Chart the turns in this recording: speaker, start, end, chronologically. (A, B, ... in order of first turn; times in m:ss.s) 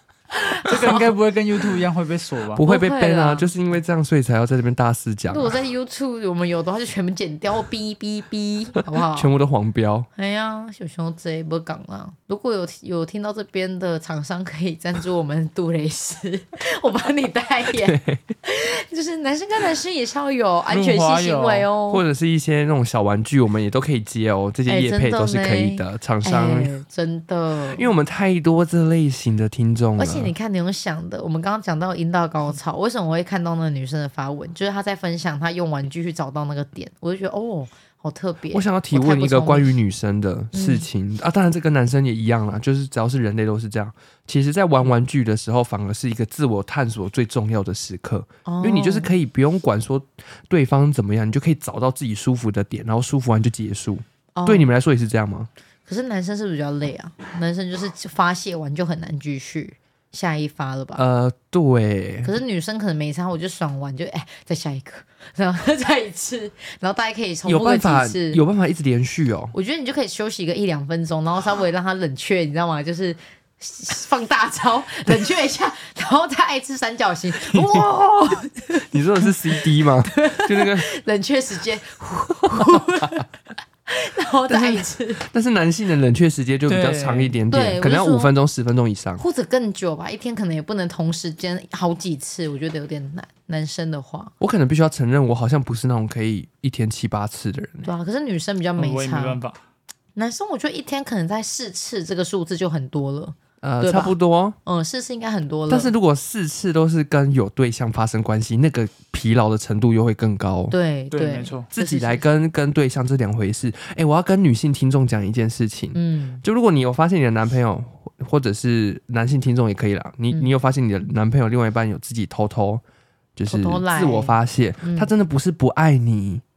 0:00.4-0:01.0 A
0:00.6-0:02.6 B
0:02.5-0:05.6 C
0:02.6-0:03.5 A
0:05.3-0:09.3 A
0:08.9-0:10.1 C
0:10.2-0:22.0 A
0:17.8-0:18.2 C
0:20.7-0:21.7 B
0:21.9-0:26.7 C
0:24.7-0:27.9 A
0:27.7-0:30.3 C
0:30.0-0:39.8 A
0:38.5-0:55.5 C
0:40.5-0:40.8 A
0:48.4-0:49.1 A
0:54.4-0:54.7 A
0:55.9-1:01.0 A
1:01.0-1:02.3 C
1:02.2-1:08.4 A
1:07.4-1:09.5 C
1:09.5-1:23.3 A
1:17.5-1:17.8 C
1:18.8-1:20.9 C
1:22.5-1:23.2 C
1:23.8-1:25.2 A
1:24.5-1:29.2 C
1:26.7-1:27.3 B
1:27.5-1:28.3 A
1:29.2-1:34.3 A
1:34.4-1:37.9 C
1:37.8-1:39.4 A
1:38.8-1:39.6 B
1:40.2-1:45.9 A
1:43.6-1:44.6 C
1:45.7-1:50.7 C
1:50.7-1:52.2 A
1:51.1-1:51.7 B
1:51.7-2:02.8 C
1:55.9-1:56.4 A
2:03.4-2:06.4 C
2:03.5-2:05.1 A